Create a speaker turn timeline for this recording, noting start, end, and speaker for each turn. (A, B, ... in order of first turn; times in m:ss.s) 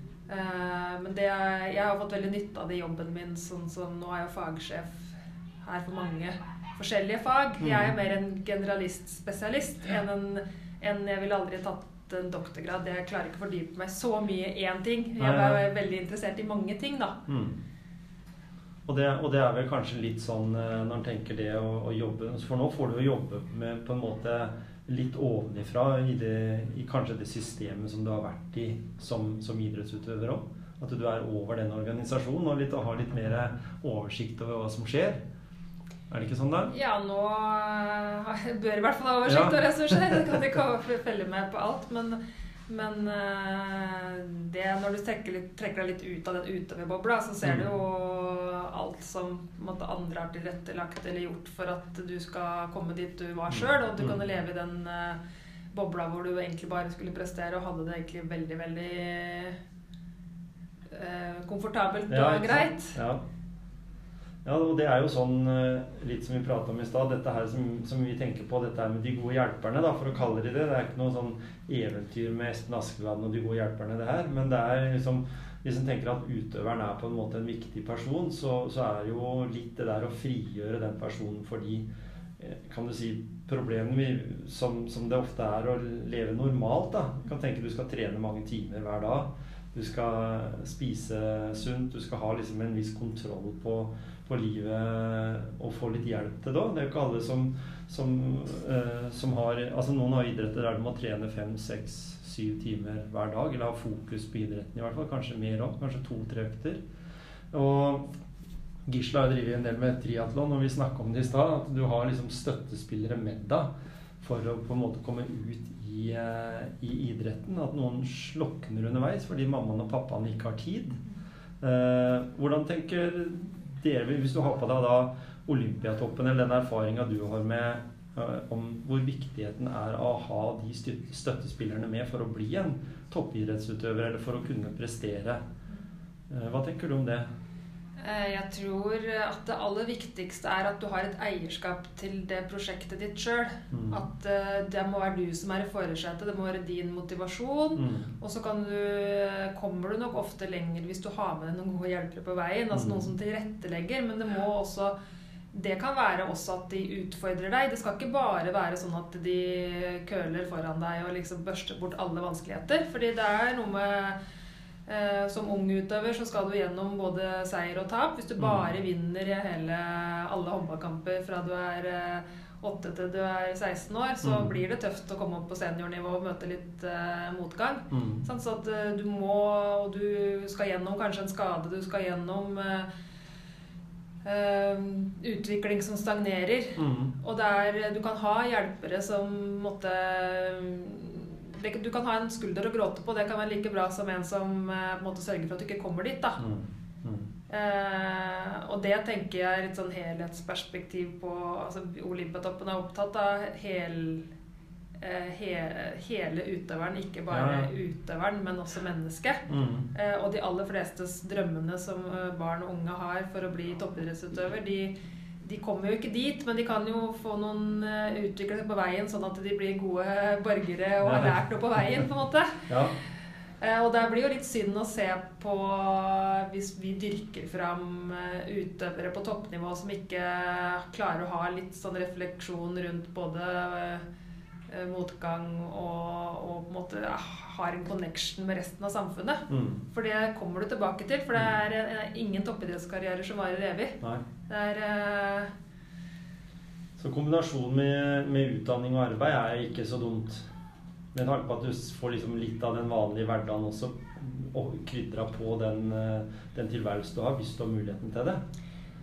0:00.3-0:17.2 A
0:07.6-0:07.9 B
0:15.2-0:15.6 B
0:17.3-0:17.6 B
0:18.8-0:35.2 B
0:36.1-0:36.7 B
0:36.7-0:55.2 A
0:39.2-0:40.3 B
0:47.4-0:47.7 B
0:53.5-0:54.2 B
0:55.7-0:59.6 A
1:00.9-1:03.0 A
1:02.1-1:03.2 B
1:04.4-1:21.9 B
1:22.4-1:46.8 B
1:47.5-1:48.1 B
1:48.8-1:53.7 B
1:54.2-2:01.0 B
2:01.6-2:15.4 B
2:16.3-2:17.3 B
2:18.0-2:34.9 A
2:23.7-2:24.0 B
2:27.8-2:28.1 B
2:32.7-2:33.1 B
2:35.5-2:44.2 A
2:44.9-3:02.9 A
2:54.2-2:54.5 B
2:57.9-2:58.2 B
3:04.2-3:16.4 A
3:06.8-3:07.1 B
3:16.4-3:17.3 B
3:17.5-3:24.3 A
3:25.0-3:42.7 A
3:27.3-3:27.7 B
3:29.5-3:29.9 B
3:41.0-3:41.3 B
3:42.7-3:42.9 B
3:43.6-3:54.0 A
3:54.7-4:04.0 A
3:59.5-3:59.8 B
4:04.5-4:05.5 A
4:07.0-4:10.4 B
4:11.1-4:18.4 B